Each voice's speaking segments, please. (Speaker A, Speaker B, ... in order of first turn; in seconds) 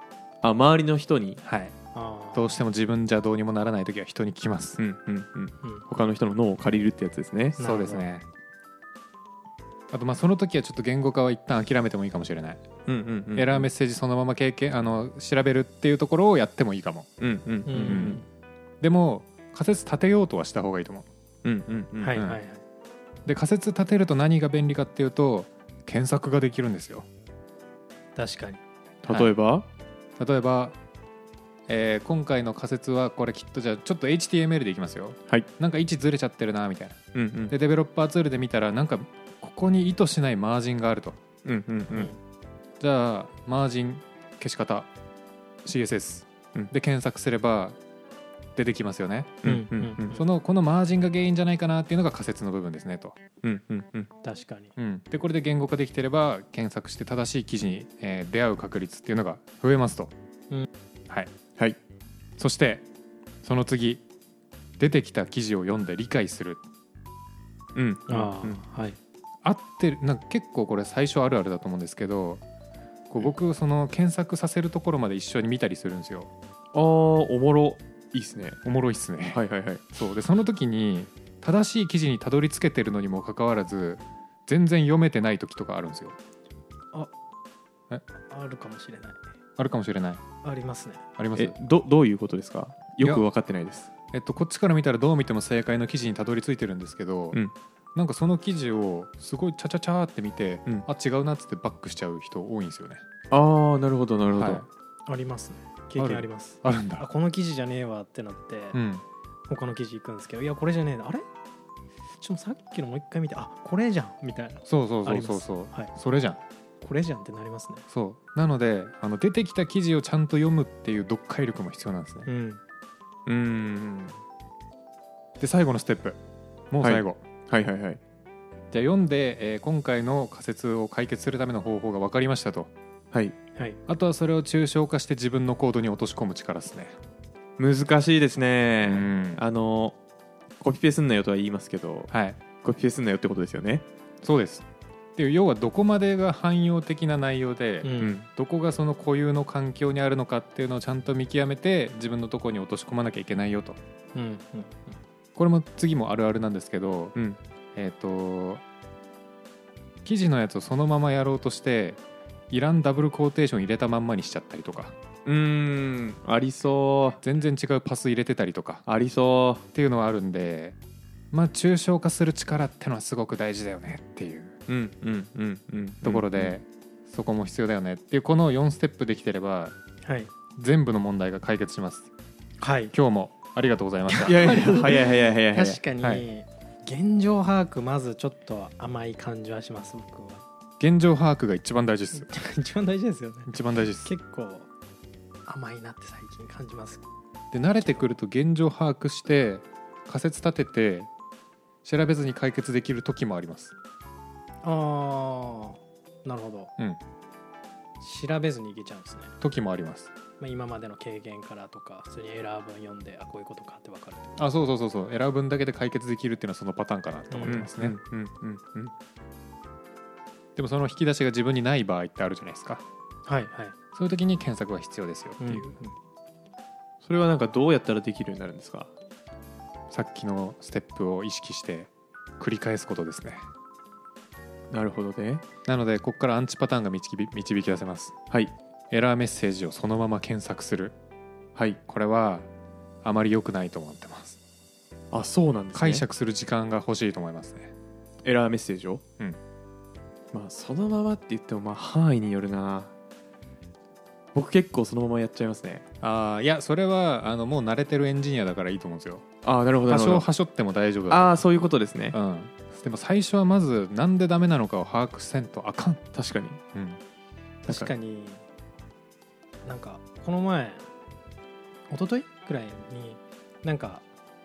Speaker A: 0.4-1.4, 4.8-7.6, 12.8-13.7, 17.2-18.2, 21.4-22.2, 29.0-29.7, 37.1-37.5, 41.4-42.1, 49.4-50.2, 53.4-54.1, 67.7-68.6, 76.7-78.6, 79.3-79.8, 91.3-93.9, 103.3-104.6, 123.2-124.2, 126.8-128.0, 137.6-140.0, 140.6-142.1, 142.6-143.8, 148.0-148.2, 165.2-167.2, 168.8-169.6, 174.7-176.6, 184.2-185.8, 217.4-218.9, 227.0-228.9, 234.7-235.4, 241.5-241.8, 245.1-246.0, 248.2-249.0, 250.3-252.9, 254.3-255.8, 259.4-260.3, 261.1-262.2, 266.1-266.6, 267.7-267.9
Speaker B: 1.4-1.7, 2.3-4.8, 7.6-8.2, 9.9-12.6, 13.3-17.1, 17.8-18.2, 18.8-21.1, 22.1-22.4, 23.2-27.1, 30.2-30.8, 31.7-37.0, 37.5-41.2, 42.8-44.9, 45.6-47.8, 48.5-49.5, 50.1-53.2, 54.8-60.1, 62.4-62.8, 63.4-64.0, 64.8-66.6, 69.4-72.4, 73.1-76.3, 78.6-79.4, 79.9-86.2, 89.6-90.2, 91.2-91.5, 94.1-97.4, 97.9-103.0, 104.3-104.7, 106.0-107.0, 108.7-109.0, 114.7-116.4, 117.9-122.3, 125.4-126.2, 126.7-127.2, 128.7-132.7, 133.9-136.9, 138.8-139.4, 142.1-142.4, 144.2-144.6, 145.2-153.8, 155.3-157.1, 157.7-158.6, 160.0-162.0, 162.5-164.9, 167.2-168.8, 169.7-170.8, 171.3-174.6, 176.0-179.7, 180.5-182.1, 182.9-184.4, 190.8-192.3, 193.5-194.1, 197.5-201.1, 201.8-203.7, 209.4-210.1, 214.4-217.9, 220.6-222.8, 223.9-225.7, 229.9-233.5, 235.7-238.1, 238.9-240.9, 241.9-242.5, 243.0-244.4, 245.7-247.7, 256.0-259.2, 259.9-261.4, 262.1-266.1, 266.7-267.0
Speaker C: 1.9-2.5, 7.6-8.1, 17.7-18.2, 22.0-22.6, 28.1-28.6, 49.4-50.2, 54.2-54.7, 68.1-69.0, 88.2-89.2, 90.4-91.0, 105.0-108.8, 109.5-111.2, 112.2-115.9, 116.8-117.8, 122.2-122.6, 147.8-148.2, 154.1-155.0, 180.0-180.3, 182.6-182.9, 184.1-190.4, 192.2-193.5, 194.0-194.7, 195.5-197.0, 204.6-206.7, 208.0-209.3, 210.4-214.4, 217.3-217.6, 223.2-223.7, 225.4-225.9, 267.6-268.4, 269.6-270.8, 271.9-274.0